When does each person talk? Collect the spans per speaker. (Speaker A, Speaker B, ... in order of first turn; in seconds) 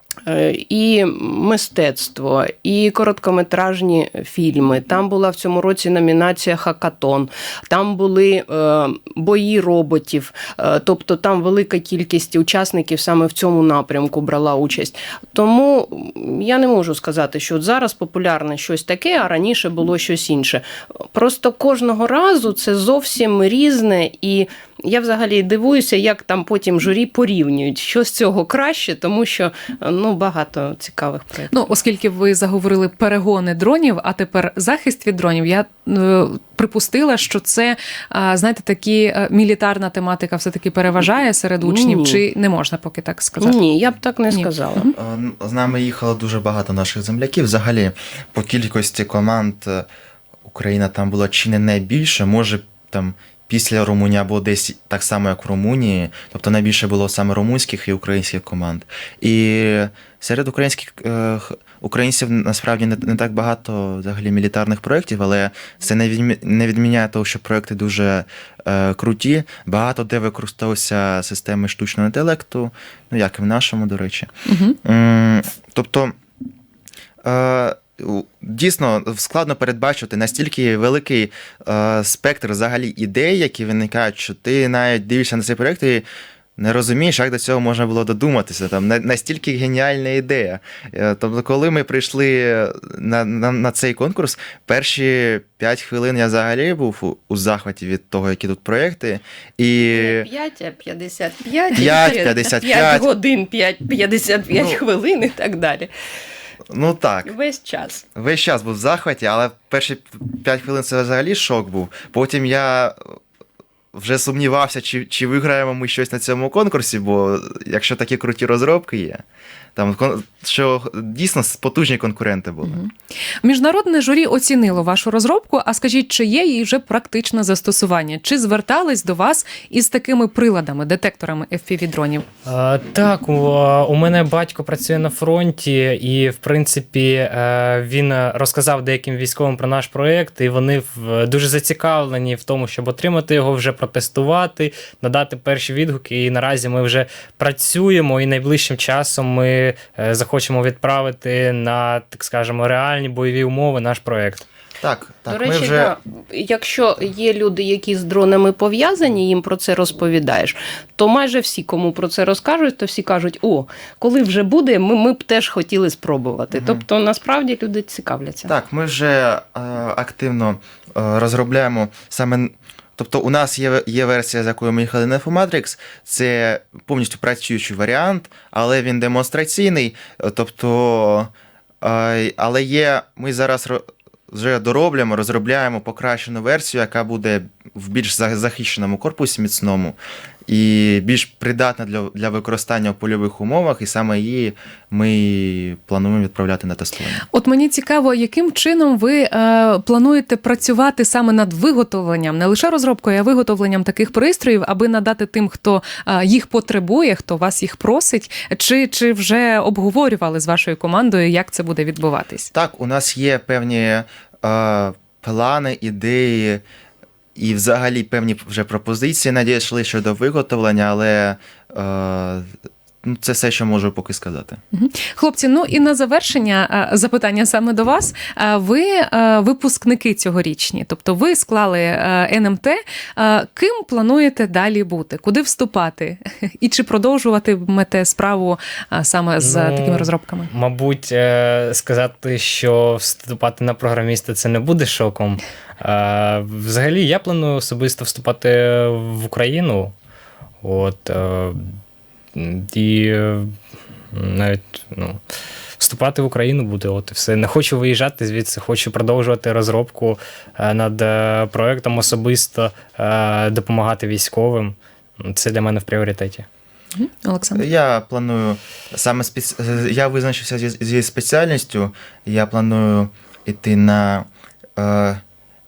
Speaker A: 0.2-31.7, 41.6-42.2, 43.4-44.9, 99.9-105.9, 107.2-108.0, 155.3-168.5
Speaker B: 31.5-43.6, 44.3-44.9, 74.5-74.8, 122.6-122.9, 123.4-132.3, 197.3-212.5, 224.7-240.5, 266.9-267.6
Speaker C: 44.9-49.9, 50.4-74.3, 74.8-76.1, 77.2-86.0, 86.6-100.3, 101.7-103.1, 104.5-104.8, 106.7-107.3, 108.1-113.2, 113.9-119.2, 119.8-122.8, 154.8-155.9, 166.5-166.8, 168.5-181.3, 181.8-197.2, 212.5-216.6, 217.3-222.5, 223.0-224.6, 267.5-275.2
Speaker D: 132.4-154.4, 239.4-249.9, 250.6-251.7, 252.3-253.5, 254.1-255.2, 255.8-266.4